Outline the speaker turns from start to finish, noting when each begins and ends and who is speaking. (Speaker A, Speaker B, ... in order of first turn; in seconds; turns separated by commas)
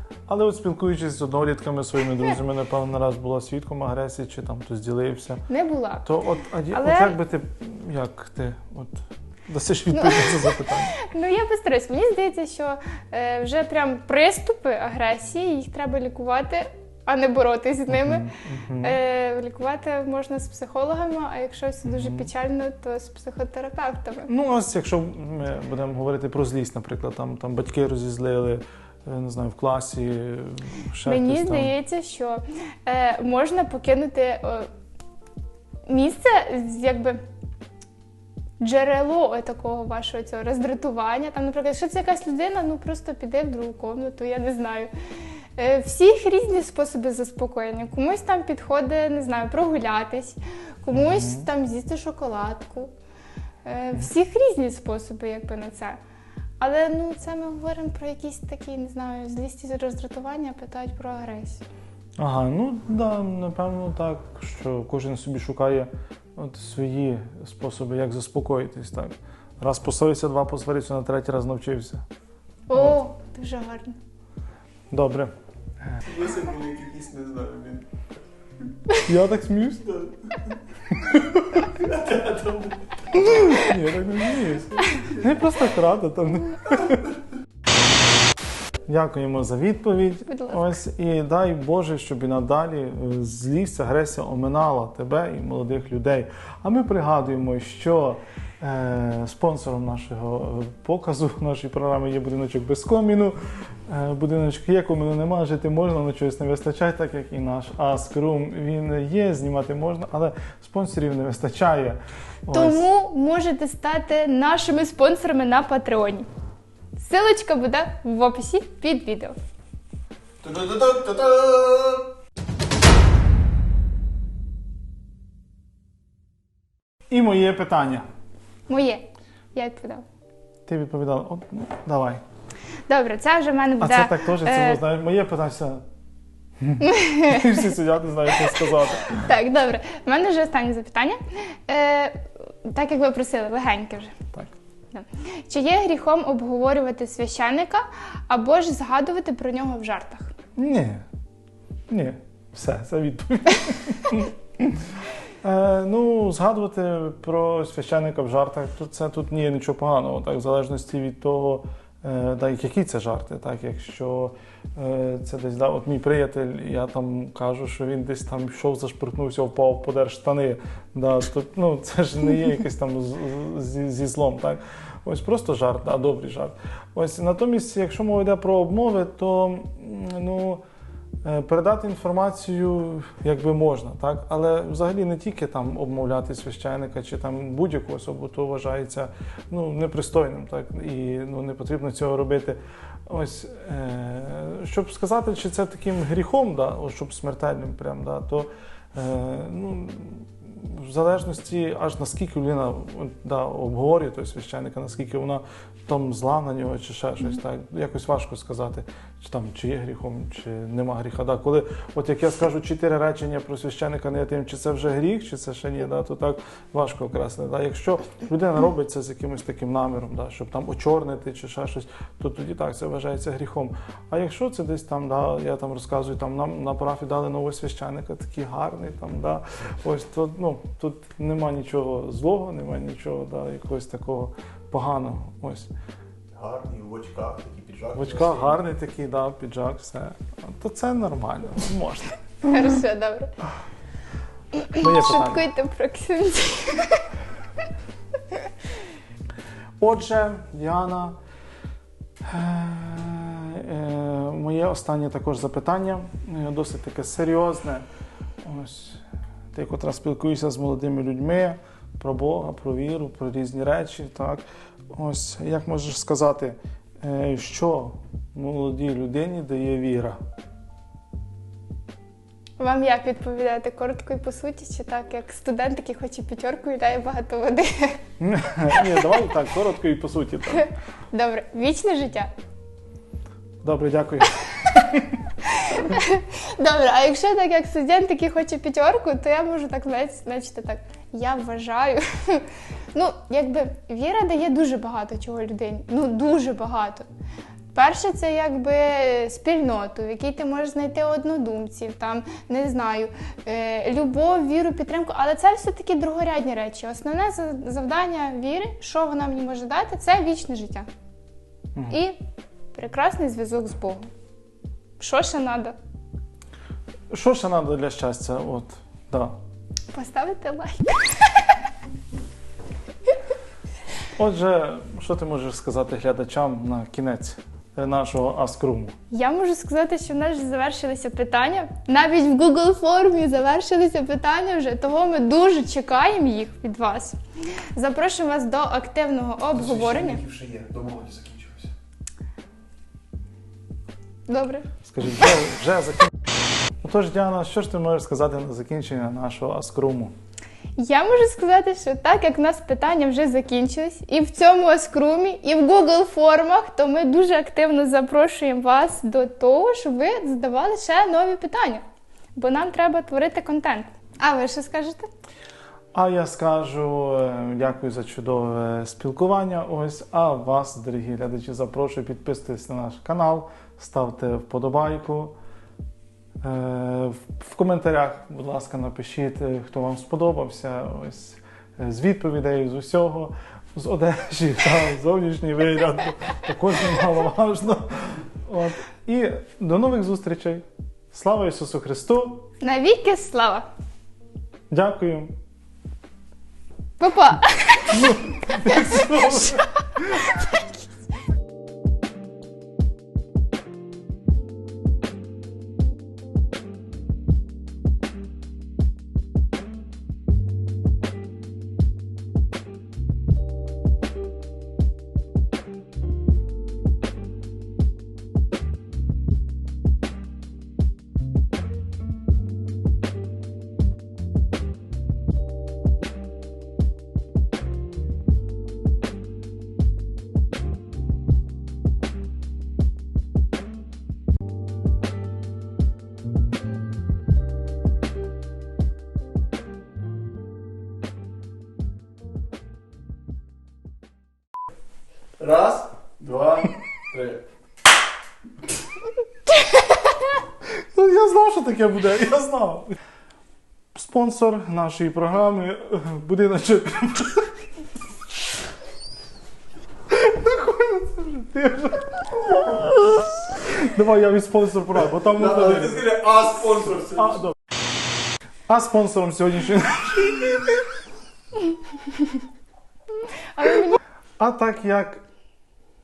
Speaker A: 0.3-5.5, Speaker B: 5.5-6.1, Speaker A: 6.0-10.9, Speaker B: 6.7-7.2, Speaker B: 9.9-24.3, Speaker A: 17.9-19.0, Speaker A: 21.9-22.3, Speaker A: 24.3-31.8, Speaker B: 31.1-34.7, Speaker B: 35.9-37.2, Speaker B: 38.6-44.9, Speaker B: 45.6-52.9, Speaker A: 50.9-51.5, Speaker B: 53.6-56.0, Speaker B: 56.6-61.6, Speaker A: 62.2-72.0, Speaker B: 72.7-74.0, Speaker A: 72.7-73.0, Speaker A: 74.9-75.3, Speaker C: 76.1-77.9, Speaker A: 79.1-80.1, Speaker A: 80.9-81.7, Speaker C: 81.8-82.9, Speaker A: 83.1-87.2, Speaker A: 88.9-103.4, Speaker B: 90.3-90.8, Speaker A: 103.9-112.9, Speaker B: 112.5-116.3, Speaker B: 117.0-119.4, Speaker C: 120.4-122.0, Speaker A: 127.1-128.1, Speaker B: 128.7-130.0, Speaker A: 130.7-132.2, Speaker B: 132.9-134.8, Speaker A: 133.8-135.8, Speaker A: 136.6-139.3, Speaker B: 136.8-137.5, Speaker B: 139.2-144.2, Speaker B: 144.9-150.3, Speaker A: 150.6-151.1, Speaker A: 151.9-154.9, Speaker A: 155.4-180.6, Speaker A: 181.2-235.7, Speaker C: 236.3-238.6, Speaker A: 237.9-242.2, Speaker B: 242.4-243.3, Speaker B: 244.6-247.1, Speaker A: 244.7-245.5, Speaker A: 249.8-251.2, Speaker A: 252.2-257.9, Speaker A: 258.4-270.2, Speaker B: 272.6-278.0, Speaker A: 278.2-280.7, Speaker B: 278.8-279.0, Speaker B: 280.5-282.3, Speaker A: 283.6-285.2, Speaker B: 284.4-284.8, Speaker B: 285.4-297.1, Speaker B: 297.7-310.9, Speaker B: 311.9-312.2, Speaker B: 312.7-314.1, Speaker B: 315.0-315.8, Speaker A: 317.1-319.4, Speaker B: 319.9-321.5, Speaker A: 324.2-328.9, Speaker B: 329.1-340.2, Speaker C: 339.6-341.7, Speaker B: 344.3-344.7, Speaker A: 344.8-346.1, Speaker A: 346.8-350.1, Speaker B: 350.8-361.8, Speaker B: 362.4-365.1, Speaker A: 365.9-375.4, Speaker A: 376.4-392.5, Speaker B: 392.6-393.7, Speaker A: 394.7-395.4, Speaker B: 397.0-399.6, Speaker A: 397.9-400.3, Speaker B: 400.3-400.6, Speaker C: 445.4-447.4, Speaker A: 450.9-453.0, Speaker A: 453.9-457.6, Speaker A: 460.1-467.6, Speaker C: 466.0-467.0, Speaker A: 468.7-470.8, Speaker B: 473.6-474.0, Speaker A: 474.4-475.2